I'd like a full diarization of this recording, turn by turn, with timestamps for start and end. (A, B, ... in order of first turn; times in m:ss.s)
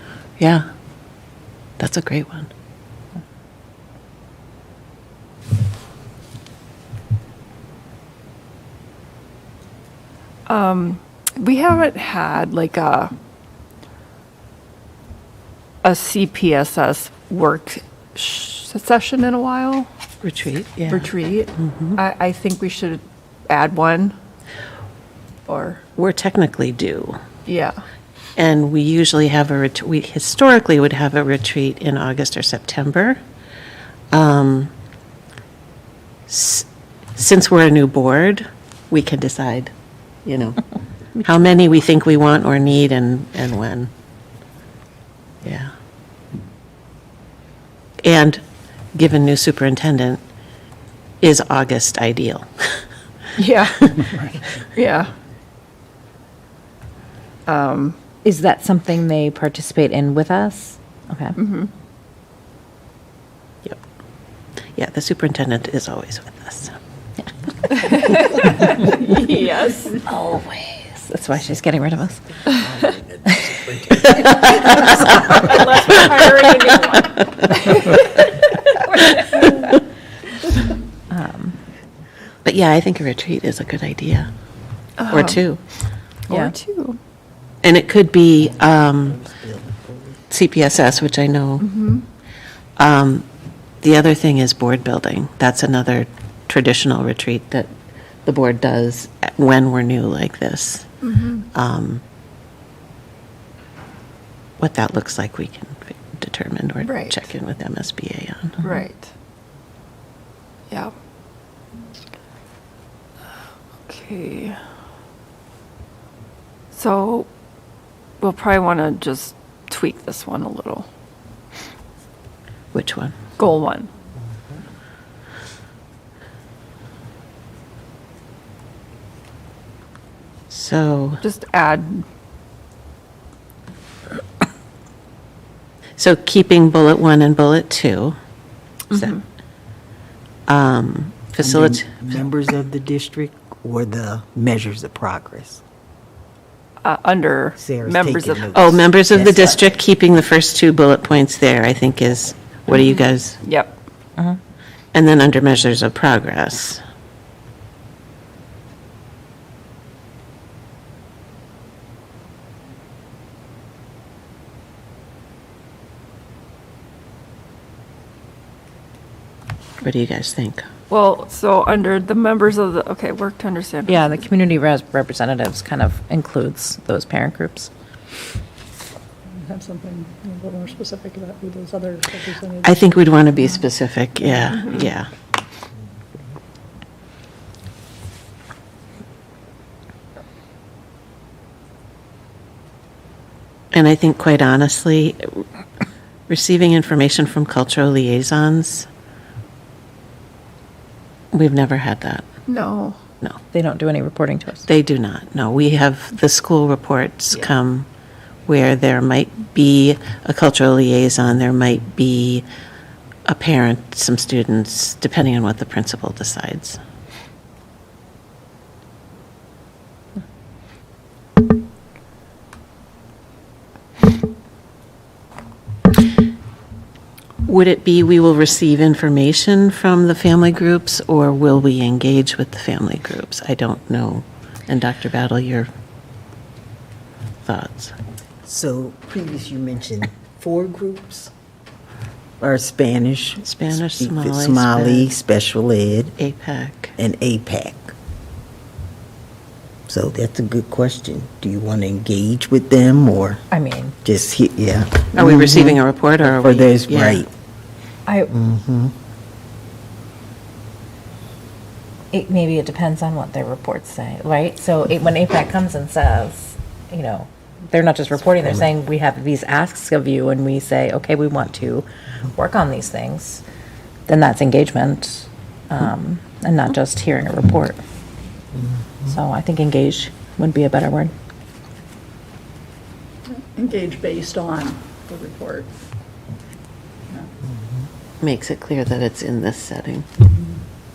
0:00.4-0:00.6 A
0:01.8-0:02.5 A
0:10.5-0:13.1 B
0:15.8-0:19.9 B
0:20.2-0:22.0 A
0:20.9-0:24.2 B
0:25.5-0:25.8 B
0:26.0-0:27.2 A
0:27.5-0:27.8 B
0:28.4-0:33.2 A
0:34.1-0:34.7 A
0:36.3-0:39.7 A
0:40.2-0:40.6 A
0:41.2-0:43.9 A
0:45.4-0:45.7 A
0:48.0-0:48.4 A
0:48.9-0:50.2 A
0:51.2-0:52.8 A
0:53.4-0:54.1 B
0:54.7-0:55.1 B
0:57.4-0:58.0 B
0:58.2-1:01.4 C
1:01.4-1:01.7 B
1:04.8-1:06.8 A
1:07.8-1:10.0 B
1:08.0-1:08.8 C
1:10.0-1:12.5 C
1:13.3-1:15.5 C
1:14.0-1:15.3 A
1:15.2-1:19.6 B
1:19.0-1:19.4 A
1:21.1-1:21.6 C
1:22.4-1:24.3 A
1:25.0-1:25.4 B
1:25.1-1:25.6 A
1:26.3-1:27.0 B
1:27.6-1:29.3 A
1:29.2-1:30.0 D
1:30.3-1:31.7 A
1:31.6-1:32.0 B
1:32.8-1:33.3 A
1:33.8-1:37.7 A
1:38.2-1:40.9 A
1:41.0-1:41.5 B
1:41.5-1:42.0 A
1:44.6-1:48.6 A
1:46.8-1:47.3 B
1:48.6-1:49.1 B
1:53.9-1:54.6 B
1:56.7-1:57.3 B
1:58.2-2:00.9 B
2:02.7-2:03.2 A
2:03.4-2:03.9 B
2:10.5-2:11.2 A
2:11.2-2:12.1 B
2:16.0-2:18.2 A
2:18.9-2:19.2 A
2:18.9-2:19.2 B
2:20.5-2:22.0 A
2:21.4-2:25.6 D
2:26.8-2:28.7 B
2:27.6-2:29.6 D
2:28.5-2:33.4 A
2:33.4-2:33.8 B
2:34.9-2:36.8 A
2:49.8-2:50.7 A
2:50.9-2:54.0 B
2:53.9-2:57.7 C
2:59.3-3:02.8 E
3:02.6-3:05.1 A
3:13.7-3:15.4 A
3:16.3-3:18.9 A
3:21.3-3:22.2 A
3:22.5-3:23.0 B
3:23.5-3:24.7 C
3:24.7-3:27.9 A
3:28.5-3:32.5 A
3:33.2-3:36.8 A
3:47.4-3:55.7 A
3:57.5-3:57.9 A
3:58.4-4:01.3 D
4:02.4-4:06.2 D
4:03.4-4:05.1 A
4:06.2-4:06.9 A
4:07.0-4:07.9 D
4:09.9-4:13.4 D
4:13.5-4:13.9 C
4:14.0-4:17.3 D
4:15.1-4:17.2 A
4:18.1-4:18.3 C
4:18.3-4:18.9 D
4:22.1-4:33.4 C
4:34.1-4:37.8 C
4:39.0-4:41.1 C
4:43.3-4:45.7 E
4:48.2-4:50.2 A